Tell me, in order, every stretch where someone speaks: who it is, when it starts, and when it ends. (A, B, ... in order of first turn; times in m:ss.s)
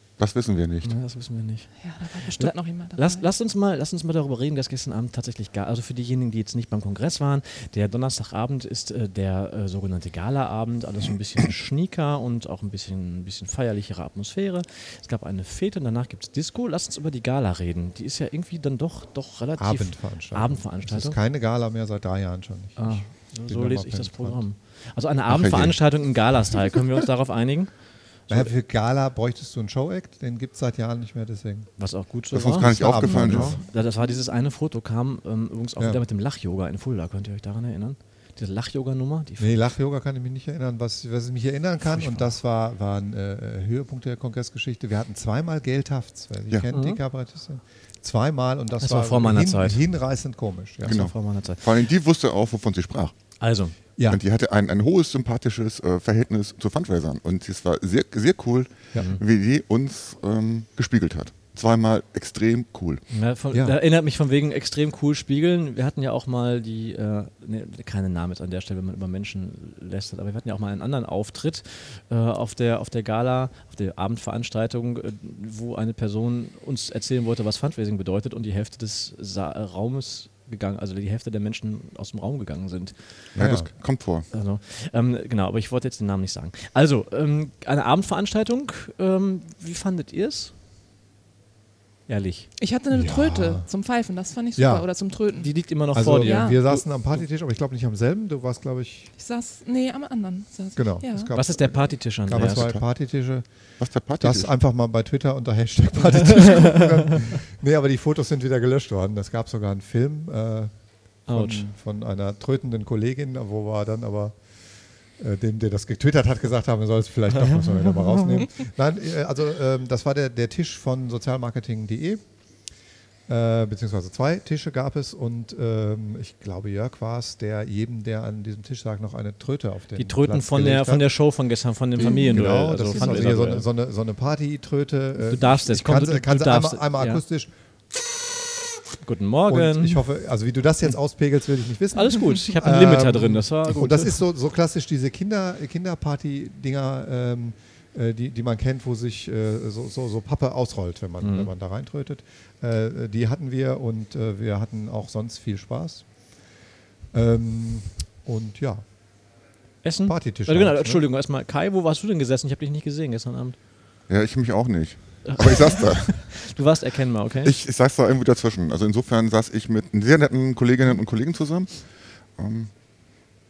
0:00.2-0:00.9 A
0:00.8-0:21.2 B
0:01.8-0:03.3 C
0:19.6-0:24.4 D
0:22.8-0:28.5 B
0:25.3-0:26.0 A
0:28.3-0:31.8 D
0:31.8-0:39.5 B
0:32.3-0:33.6 A
0:32.6-0:33.6 D
0:39.4-0:51.1 D
0:41.8-0:42.3 B
0:46.7-0:47.0 B
0:48.8-0:49.8 B
0:50.8-0:51.7 B
0:50.8-0:53.2 A
0:53.4-0:53.7 B
0:54.0-0:54.2 D
0:54.1-1:03.1 A
0:58.9-0:59.2 B
1:03.1-1:23.3 B
1:23.3-1:24.3 A
1:23.4-1:23.7 D
1:24.3-1:30.5 B
1:32.1-1:32.5 B
1:32.6-1:36.6 C
1:32.9-1:33.7 D
1:34.6-1:34.9 D
1:35.4-1:37.2 B
1:35.9-1:39.1 D
1:39.2-1:41.4 C
1:40.7-2:02.4 D
1:41.3-1:42.7 B
1:42.3-1:43.0 A
1:43.8-1:44.5 A
1:51.2-1:51.6 B
1:57.4-1:58.2 B
2:03.3-2:11.1 D
2:09.9-2:13.7 B
2:12.0-2:17.5 D
2:12.0-2:12.4 C
2:12.9-2:13.3 C
2:15.2-2:17.2 B
2:19.0-2:20.0 B
2:19.5-2:36.3 D
2:21.9-2:24.2 B
2:31.2-2:31.5 B
2:37.1-2:39.0 D
2:39.8-2:43.6 B
2:40.0-2:41.0 D
2:44.1-2:46.4 A
2:45.2-2:47.5 B
2:47.4-2:52.7 A